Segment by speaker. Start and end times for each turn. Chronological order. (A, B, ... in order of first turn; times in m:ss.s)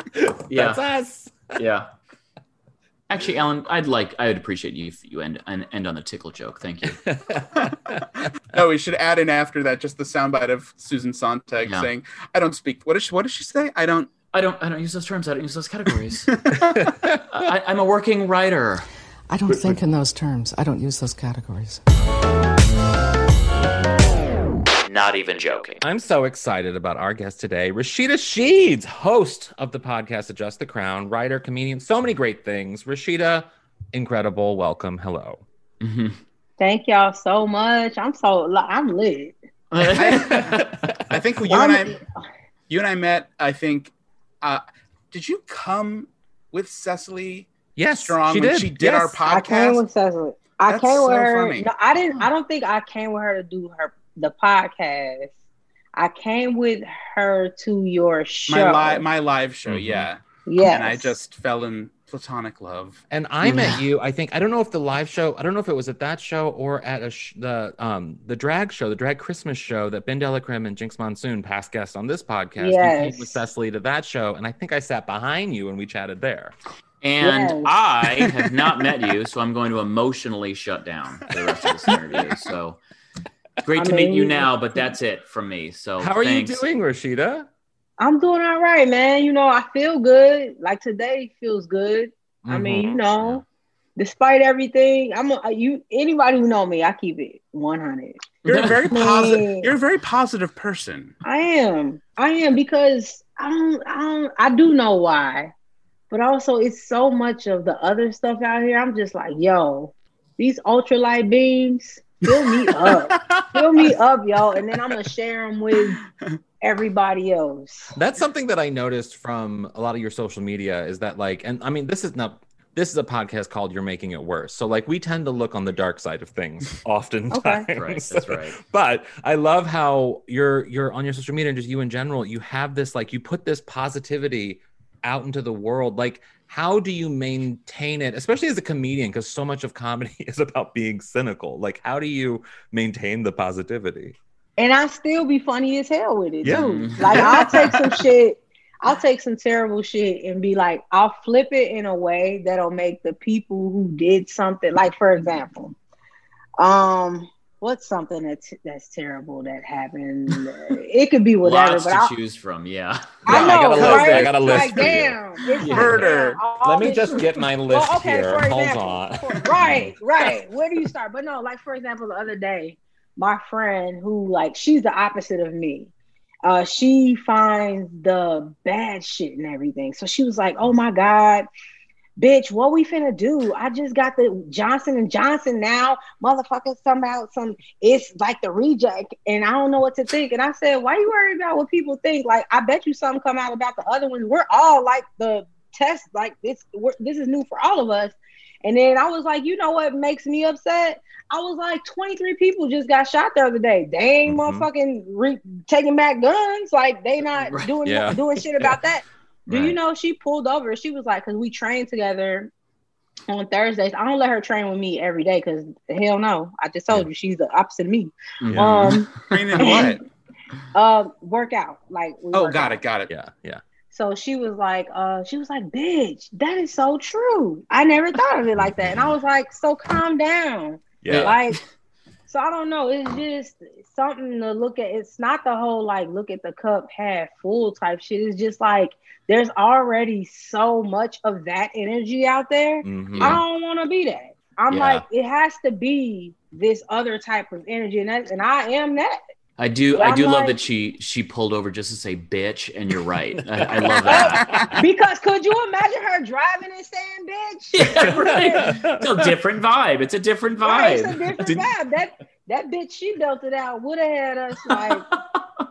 0:00.1-0:01.6 A
0:00.5-0:00.8 B
0:01.5-0:01.9 B
0:03.1-0:07.0 B
0:06.8-0:08.1 A
0:07.5-0:14.1 C
0:14.3-0:16.5 B
0:16.3-0:16.8 C
0:16.7-0:17.5 A
0:17.3-0:18.8 B
0:19.3-0:21.8 D
0:19.5-0:19.8 A
0:24.8-0:25.8 B
0:25.8-0:35.4 A
0:35.8-0:36.2 B
0:36.6-0:39.4 E
0:39.7-0:40.7 B
0:39.9-0:42.0 C
0:40.1-0:40.9 A
0:41.5-0:42.0 E
0:42.7-0:49.8 C
0:47.8-0:49.2 A
0:49.2-0:55.3 E
0:50.7-0:51.7 C
0:55.9-0:59.0 E
0:58.5-1:03.0 C
0:59.7-1:00.1 A
1:00.4-1:01.1 E
1:03.1-1:16.5 A
1:03.4-1:03.8 B
1:12.6-1:13.4 E
1:17.0-1:22.8 B
1:17.2-1:17.8 E
1:18.4-1:18.7 C
1:23.6-1:26.6 B
1:23.7-1:24.9 E
1:26.0-1:27.5 A
1:28.0-1:33.4 E
1:32.4-1:33.0 A
1:34.0-1:38.2 E
1:38.4-1:41.2 C
1:38.5-1:38.7 B
1:38.8-1:39.7 E
1:41.2-1:45.5 E
1:46.1-1:56.0 E
1:52.5-1:53.9 C
1:56.6-1:57.9 E
1:57.9-2:24.2 A
2:07.3-2:07.7 E
2:07.8-2:08.6 B
2:24.6-2:35.7 E
2:26.4-2:27.3 A
2:26.5-2:27.3 B
2:27.0-2:28.0 C
2:36.6-2:42.1 E
2:41.4-2:44.8 B
2:43.2-2:55.9 E
2:43.3-2:45.2 A
2:43.8-2:45.0 C
2:45.6-2:46.0 B
2:45.7-2:46.9 C
2:45.7-2:46.0 A
2:46.6-2:49.5 A
2:49.6-2:49.9 B
2:56.4-3:01.5 E
3:02.2-3:32.5 E
3:24.2-3:24.7 A
3:27.4-3:27.7 B
3:27.8-3:28.8 A
3:29.5-3:29.8 B
3:33.3-3:40.0 E
3:38.4-3:39.0 B
3:38.5-3:39.0 A
3:39.2-3:40.0 C
3:40.7-3:42.8 E
3:42.3-3:43.1 C
3:43.1-3:43.6 A
3:43.9-3:51.6 E
3:48.6-3:49.1 A
3:51.0-3:51.4 A
3:51.1-3:51.6 B
3:52.3-4:09.2 E
4:02.8-4:03.4 A
4:03.1-4:03.4 B
4:04.7-4:05.0 B
4:09.6-4:14.7 B
4:10.0-4:10.6 E
4:13.5-4:14.8 A
4:14.1-4:18.7 E
4:14.3-4:14.7 C
4:17.7-4:21.3 B
4:18.0-4:19.3 A
4:20.6-4:25.0 E
4:21.4-4:21.7 A
4:24.7-4:25.2 B